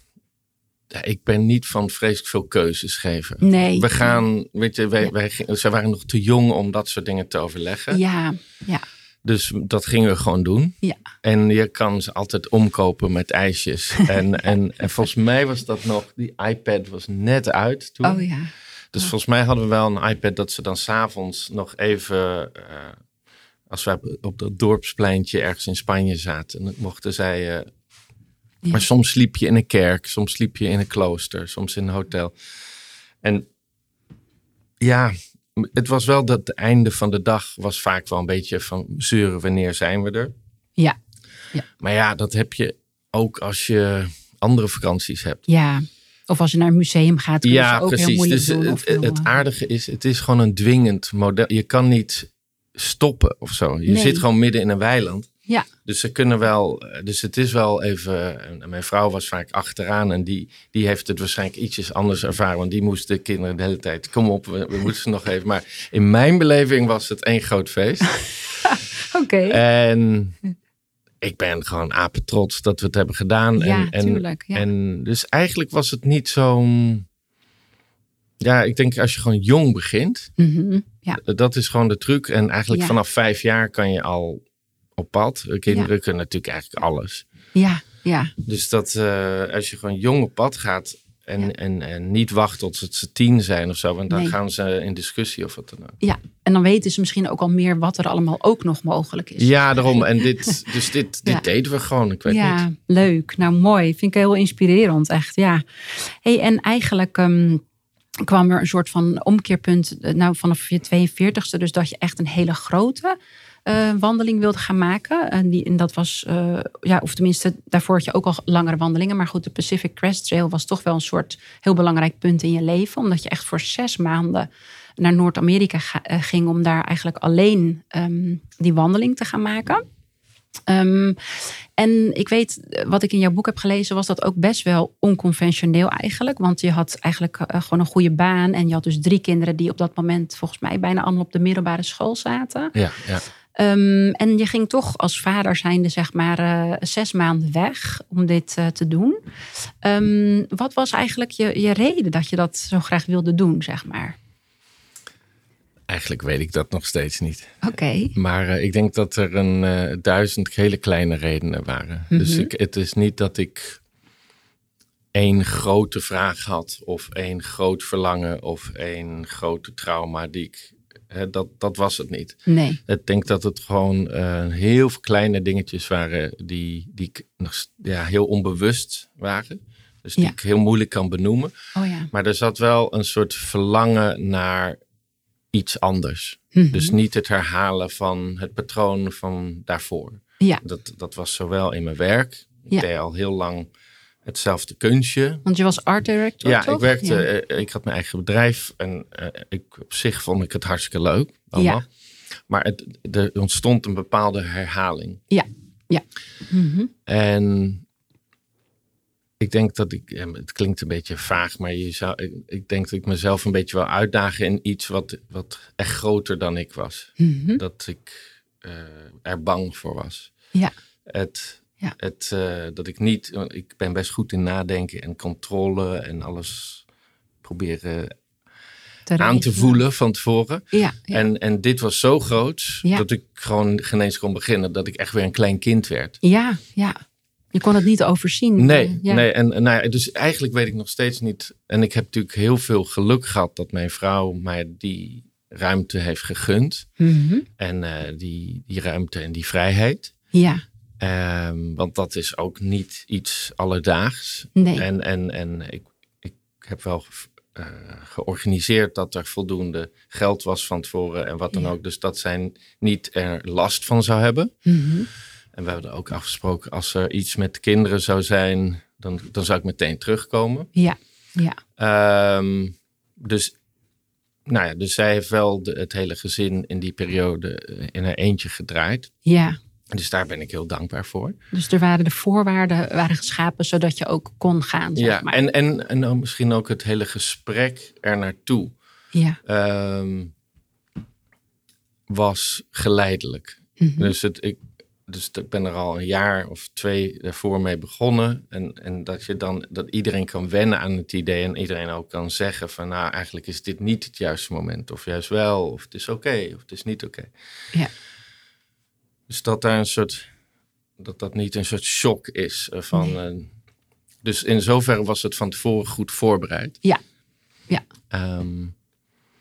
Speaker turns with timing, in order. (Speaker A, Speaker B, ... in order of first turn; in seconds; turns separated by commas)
Speaker A: 0.9-8.0, Speaker B: 3.4-4.2, Speaker B: 7.9-8.8, Speaker A: 9.2-18.2, Speaker B: 18.0-19.1, Speaker A: 18.9-23.0, Speaker A: 23.7-27.7, Speaker A: 28.7-32.6, Speaker A: 33.2-33.5, Speaker A: 34.8-40.3, Speaker A: 41.8-45.4, Speaker B: 45.5-49.3, Speaker A: 47.4-55.3, Speaker B: 53.9-54.2, Speaker A: 55.8-68.6, Speaker B: 68.6-69.6, Speaker A: 69.5-70.4, Speaker A: 71.2-77.0, Speaker B: 73.5-74.7, Speaker A: 78.4-80.3, Speaker B: 80.4-81.2, Speaker A: 81.2-84.4, Speaker B: 82.7-83.0, Speaker A: 85.0-87.2, Speaker B: 87.5-88.3, Speaker A: 88.4-96.0, Speaker B: 96.0-100.6, Speaker A: 99.4-102.6, Speaker B: 102.3-107.6, Speaker B: 108.2-129.8, Speaker B: 130.7-142.7, Speaker A: 142.7-143.2, Speaker B: 143.6-154.2, Speaker A: 155.9-163.8, Speaker B: 157.6-158.1, Speaker B: 162.1-162.5, Speaker A: 165.1-181.5, Speaker B: 172.5-172.8, Speaker B: 181.7-182.1, Speaker A: 182.1-184.8, Speaker A: 185.5-193.7, Speaker B: 186.5-186.9, Speaker A: 194.2-195.4, Speaker B: 195.4-197.2, Speaker A: 196.4-201.8, Speaker B: 201.6-201.8, Speaker A: 202.5-205.2, Speaker B: 205.3-206.9, Speaker A: 207.1-207.8, Speaker A: 209.4-220.3, Speaker B: 217.2-217.6, Speaker A: 221.1-226.8, Speaker A: 227.4-228.2, Speaker B: 229.1-229.8, Speaker A: 229.2-236.2, Speaker B: 230.7-231.2, Speaker B: 236.2-237.0, Speaker B: 237.5-239.2, Speaker A: 238.6-246.9, Speaker B: 247.0-247.5, Speaker A: 247.6-250.1, Speaker B: 250.3-250.6, Speaker A: 251.0-264.5, Speaker B: 254.6-254.8, Speaker B: 264.6-265.1, Speaker A: 265.5-270.7, Speaker B: 270.8-271.6, Speaker A: 271.8-273.5, Speaker A: 274.4-279.1, Speaker B: 279.2-279.6, Speaker A: 279.9-281.4, Speaker B: 281.5-285.4, Speaker A: 284.9-288.7, Speaker B: 289.1-289.4, Speaker A: 289.4-290.3, Speaker A: 292.1-307.3, Speaker B: 293.8-294.1, Speaker A: 309.3-310.3, Speaker A: 311.0-313.5, Speaker A: 314.2-316.8, Speaker A: 318.1-318.7